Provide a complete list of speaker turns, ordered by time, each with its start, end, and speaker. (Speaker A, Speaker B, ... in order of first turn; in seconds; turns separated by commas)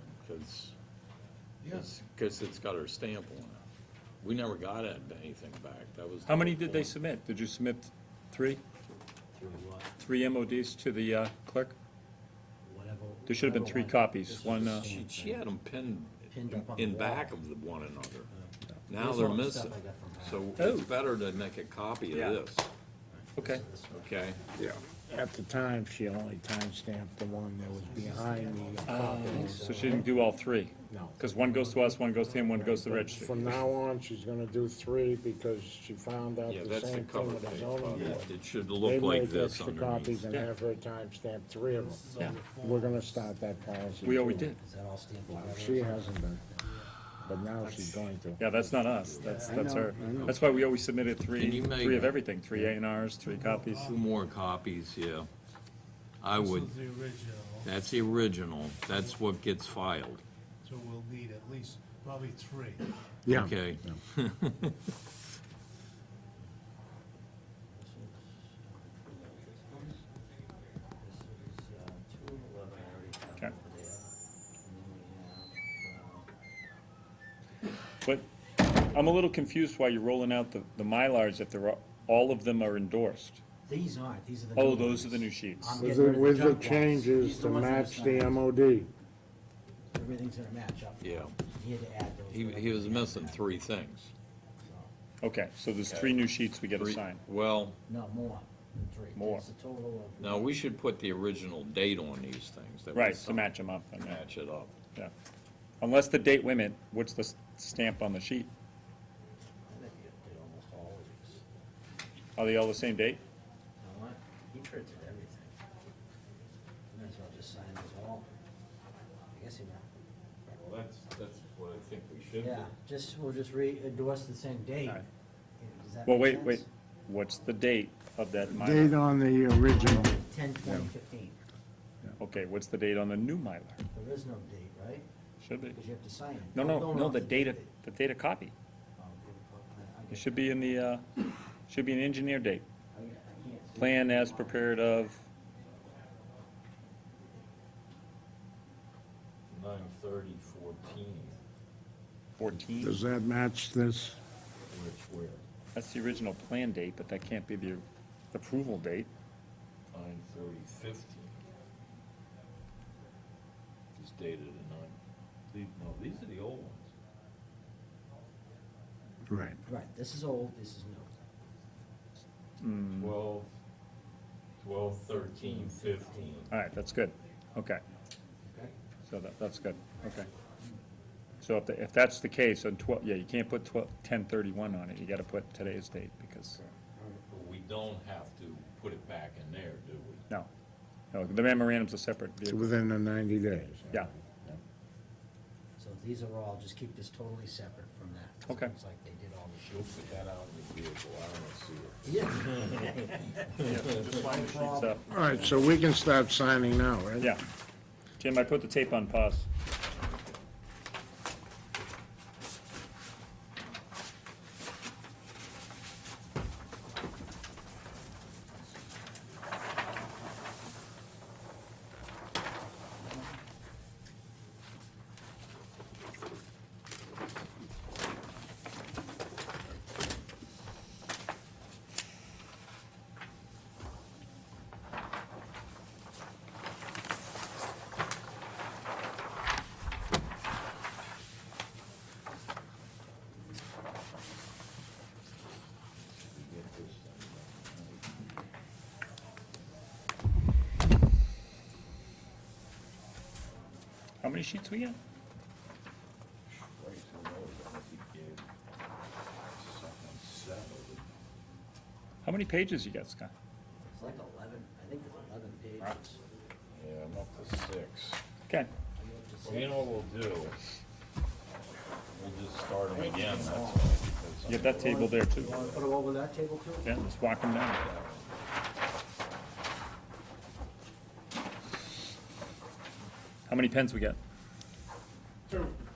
Speaker A: 0.2-0.7, Speaker B: 1.6-1.9, Speaker A: 1.7-3.6, Speaker A: 4.2-6.9, Speaker C: 6.2-8.6, Speaker D: 9.3-9.9, Speaker C: 10.0-11.8, Speaker D: 12.6-15.5, Speaker C: 13.2-14.9, Speaker A: 14.4-18.3, Speaker D: 16.3-17.4, Speaker D: 18.3-20.8, Speaker A: 18.9-22.7, Speaker C: 20.6-20.9, Speaker C: 22.1-22.4, Speaker D: 23.1-24.3, Speaker C: 23.3-23.6, Speaker A: 23.9-24.4, Speaker E: 24.6-30.1, Speaker B: 27.7-28.9, Speaker C: 28.8-33.6, Speaker D: 29.0-30.1, Speaker E: 30.9-31.3, Speaker B: 31.3-33.3, Speaker E: 32.8-44.5, Speaker A: 36.5-40.3, Speaker B: 38.0-38.2, Speaker B: 41.7-43.3, Speaker D: 43.5-46.6, Speaker C: 44.0-44.6, Speaker E: 45.3-46.4, Speaker B: 46.6-46.9, Speaker E: 47.2-48.5, Speaker C: 48.4-53.9, Speaker A: 48.5-50.7, Speaker B: 49.2-50.3, Speaker E: 49.4-50.4, Speaker A: 51.3-52.2, Speaker B: 53.2-54.1, Speaker A: 53.8-55.3, Speaker A: 56.2-56.8, Speaker B: 56.3-57.7, Speaker A: 57.6-60.2, Speaker B: 60.6-62.9, Speaker E: 63.2-64.0, Speaker A: 63.3-64.9, Speaker D: 67.7-70.0, Speaker D: 71.0-74.0, Speaker D: 74.6-76.3, Speaker C: 78.8-83.4, Speaker D: 83.7-88.5, Speaker C: 84.5-85.8, Speaker E: 85.8-88.9, Speaker D: 89.9-93.4, Speaker A: 91.0-91.3, Speaker A: 92.3-94.1, Speaker D: 94.6-94.9, Speaker C: 95.2-97.2, Speaker A: 95.8-97.8, Speaker D: 97.9-100.5, Speaker C: 99.1-99.4, Speaker A: 100.2-104.7, Speaker C: 102.9-104.2, Speaker C: 105.8-108.5, Speaker D: 109.7-111.4, Speaker C: 112.3-113.2, Speaker D: 113.8-115.5, Speaker D: 116.9-118.3, Speaker D: 119.3-119.8, Speaker A: 120.5-122.7, Speaker D: 122.3-125.0, Speaker D: 125.6-126.7, Speaker C: 126.0-129.0, Speaker E: 128.5-130.9, Speaker D: 129.6-131.4, Speaker C: 132.2-133.8, Speaker D: 133.9-135.1, Speaker C: 135.4-135.8, Speaker D: 135.7-137.7, Speaker C: 136.5-138.5, Speaker D: 139.0-140.8, Speaker C: 140.1-142.6, Speaker D: 142.9-144.9, Speaker C: 143.7-145.2, Speaker A: 149.5-151.4, Speaker C: 152.4-152.9, Speaker A: 152.4-152.9, Speaker E: 152.8-154.2, Speaker A: 154.7-155.4, Speaker C: 155.7-159.1, Speaker A: 159.9-161.4, Speaker A: 163.9-164.9, Speaker A: 165.5-166.9, Speaker E: 169.3-169.6, Speaker D: 169.6-171.1, Speaker C: 172.6-173.2, Speaker A: 172.9-173.5, Speaker A: 174.6-176.5, Speaker C: 176.5-177.8, Speaker D: 178.4-178.7, Speaker C: 179.0-180.3, Speaker C: 181.4-186.6, Speaker D: 186.6-187.2, Speaker A: 187.3-190.2, Speaker C: 191.1-192.7, Speaker E: 192.4-194.6, Speaker D: 195.8-200.2, Speaker C: 198.4-198.7, Speaker A: 199.6-203.7, Speaker D: 202.0-205.8, Speaker C: 203.6-205.0, Speaker E: 205.1-207.3, Speaker C: 208.2-209.5, Speaker A: 209.9-210.4, Speaker A: 246.0-248.1, Speaker C: 254.2-255.0, Speaker A: 256.5-258.4, Speaker A: 259.5-261.1, Speaker C: 262.2-263.3, Speaker D: 263.8-266.2, Speaker A: 266.7-268.2, Speaker D: 268.9-269.9, Speaker A: 269.4-270.6, Speaker A: 272.1-275.9, Speaker D: 272.9-273.9, Speaker C: 274.4-275.5, Speaker D: 274.8-276.9, Speaker C: 276.8-277.8, Speaker A: 277.6-278.3, Speaker C: 283.5-284.2